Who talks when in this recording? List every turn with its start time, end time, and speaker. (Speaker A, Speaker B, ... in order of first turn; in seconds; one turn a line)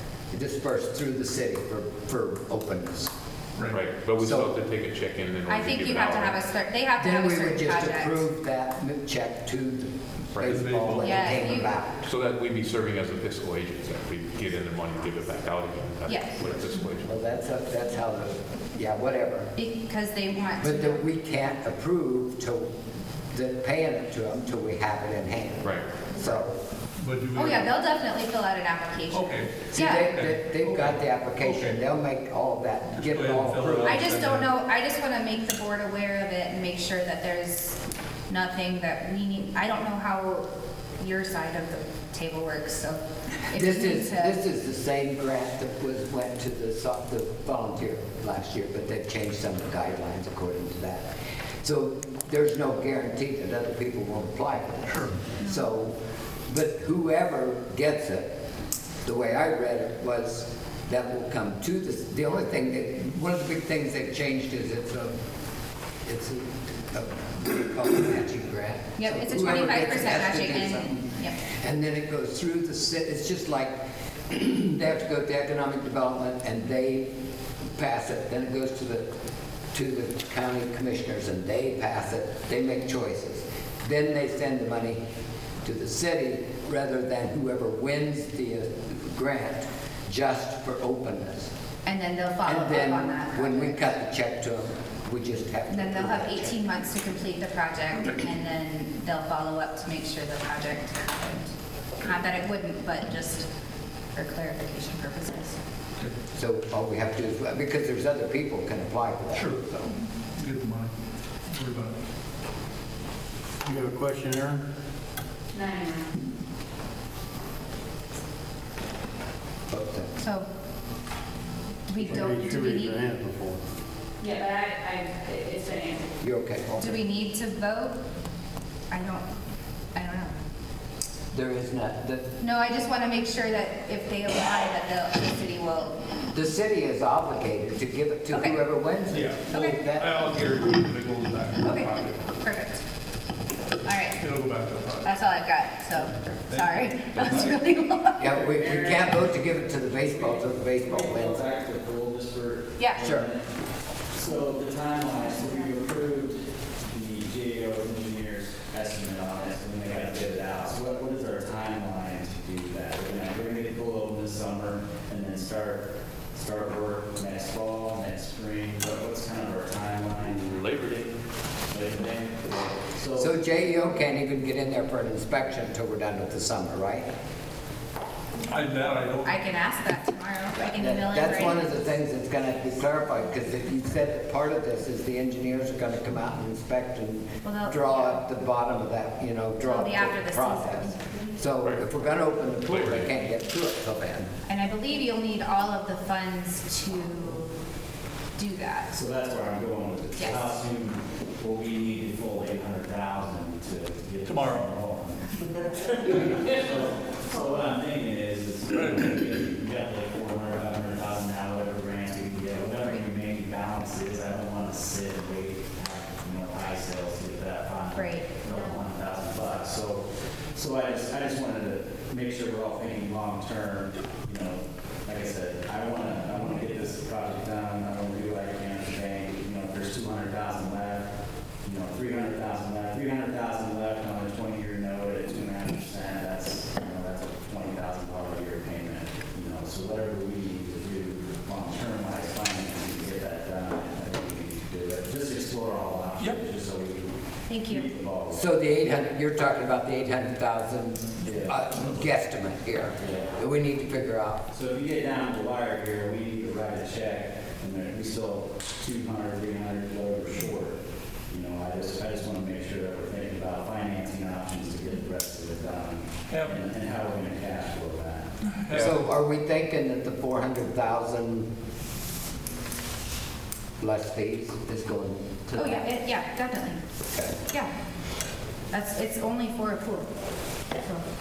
Speaker A: 0.3-3.1
Speaker B: 3.7-6.4
Speaker A: 4.2-4.5
Speaker C: 5.5-8.2
Speaker A: 7.0-12.0
Speaker B: 10.3-10.6
Speaker D: 10.4-11.6
Speaker C: 11.0-11.7
Speaker B: 12.0-17.1
Speaker C: 16.1-16.4
Speaker A: 17.1-19.5
Speaker C: 19.6-21.0
Speaker A: 20.6-22.7
Speaker A: 23.3-26.6
Speaker B: 25.6-25.9
Speaker D: 27.0-27.7
Speaker C: 27.3-30.1
Speaker D: 29.1-29.5
Speaker A: 29.7-34.0
Speaker D: 30.1-31.8
Speaker D: 33.0-34.5
Speaker C: 33.8-40.5
Speaker C: 41.0-44.4
Speaker A: 43.5-51.1
Speaker A: 51.6-55.9
Speaker A: 56.5-58.3
Speaker A: 59.0-65.1
Speaker A: 66.0-77.1
Speaker C: 69.0-71.4
Speaker A: 77.8-79.1
Speaker A: 79.7-85.0
Speaker A: 85.6-91.5
Speaker C: 91.8-93.9
Speaker A: 92.4-96.6
Speaker C: 95.7-103.5
Speaker C: 104.1-105.6
Speaker A: 106.3-109.6
Speaker D: 109.3-109.8
Speaker D: 110.4-110.9
Speaker D: 111.5-112.0
Speaker E: 113.6-114.6
Speaker F: 115.5-116.1
Speaker A: 119.7-120.1
Speaker C: 120.2-120.5
Speaker C: 121.9-123.1
Speaker E: 122.0-123.6
Speaker F: 124.2-126.0
Speaker A: 126.2-127.0
Speaker C: 126.8-128.0
Speaker C: 128.9-129.3
Speaker C: 129.9-130.3
Speaker A: 131.3-132.3
Speaker C: 132.4-136.0
Speaker A: 136.3-140.1
Speaker C: 138.3-138.6
Speaker D: 139.1-142.2
Speaker C: 139.5-139.8
Speaker C: 141.6-142.8
Speaker C: 143.8-144.2
Speaker D: 144.2-145.1
Speaker C: 145.0-148.5
Speaker D: 146.5-147.7
Speaker A: 148.2-151.4
Speaker G: 148.5-149.2
Speaker G: 150.0-153.4
Speaker C: 152.8-153.0
Speaker A: 153.0-153.3
Speaker G: 154.1-170.6
Speaker B: 170.5-171.1
Speaker G: 171.7-173.3
Speaker A: 173.2-177.1
Speaker D: 178.5-179.4
Speaker C: 179.2-181.8
Speaker A: 180.7-194.3
Speaker C: 187.4-188.2
Speaker C: 189.6-191.3
Speaker B: 192.7-193.1
Speaker C: 194.5-197.5
Speaker C: 198.3-198.9
Speaker G: 198.9-231.1
Speaker C: 200.2-200.5
Speaker D: 204.3-204.6
Speaker C: 217.9-218.3
Speaker G: 231.6-248.4
Speaker C: 247.5-247.8
Speaker A: 248.3-254.4
Speaker G: 251.2-251.6
Speaker G: 253.0-253.3
Speaker G: 254.5-260.8
Speaker G: 261.3-268.4
Speaker D: 266.3-266.6
Speaker D: 268.6-268.9
Speaker A: 268.7-271.5
Speaker A: 273.8-275.9
Speaker C: 275.6-276.8
Speaker A: 277.1-277.4
Speaker C: 278.7-280.1